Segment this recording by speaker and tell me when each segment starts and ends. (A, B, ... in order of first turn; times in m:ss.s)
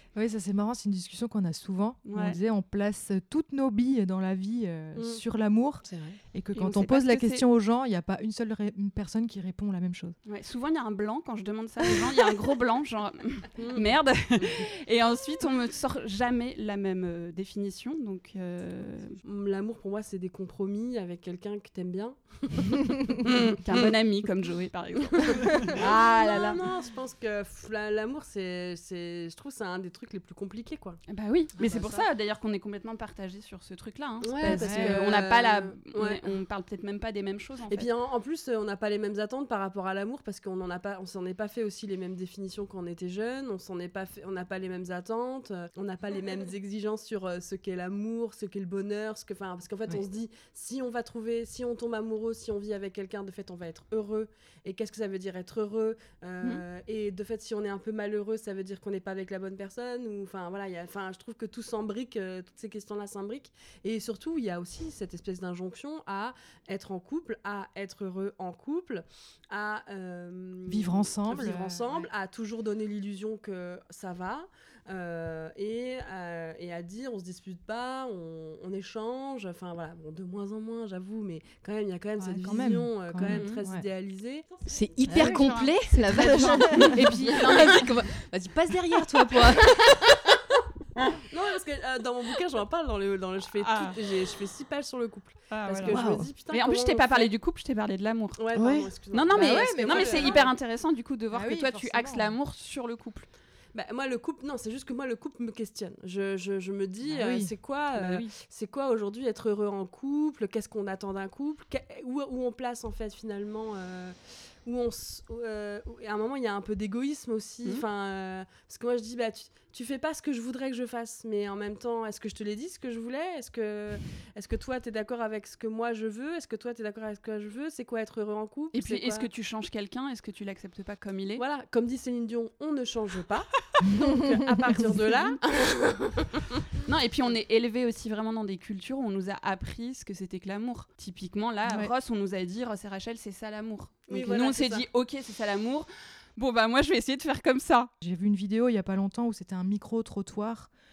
0:00.2-0:10.2 A
0:02.1-0:02.4 B
0:05.0-0:05.2 C
0:05.8-0:06.2 D
0:06.6-0:07.4 B
0:10.3-0:19.2 B
0:13.6-0:13.9 C
0:19.2-0:23.8 C
0:23.5-0:25.8 B
0:25.1-0:31.0 C
0:25.8-0:26.6 A
0:31.1-0:37.9 B
0:31.6-0:31.9 A
0:31.6-0:32.0 C
0:34.2-0:36.2 C
0:34.4-0:35.0 A
0:37.7-1:24.5 C
1:10.7-1:12.1 A
1:22.2-1:23.8 A
1:24.7-1:30.0 D
1:25.1-1:25.6 A
1:25.6-1:27.9 B
1:26.1-1:27.0 A
1:31.3-1:37.3 C
1:33.6-1:34.0 B
1:35.5-1:38.4 B
1:35.9-1:36.3 D
1:38.4-1:40.5 C
1:38.6-1:38.9 D
1:39.1-1:43.3 B
1:39.3-1:40.4 A
1:41.3-1:42.4 A
1:43.7-2:09.3 C
1:47.1-1:47.5 A
1:47.9-1:48.3 B
2:08.7-2:11.4 B
2:11.4-2:16.4 C
2:13.8-2:14.9 A
2:15.1-2:15.4 B
2:16.8-2:27.9 B
2:24.1-2:24.8 C
2:28.0-2:30.7 A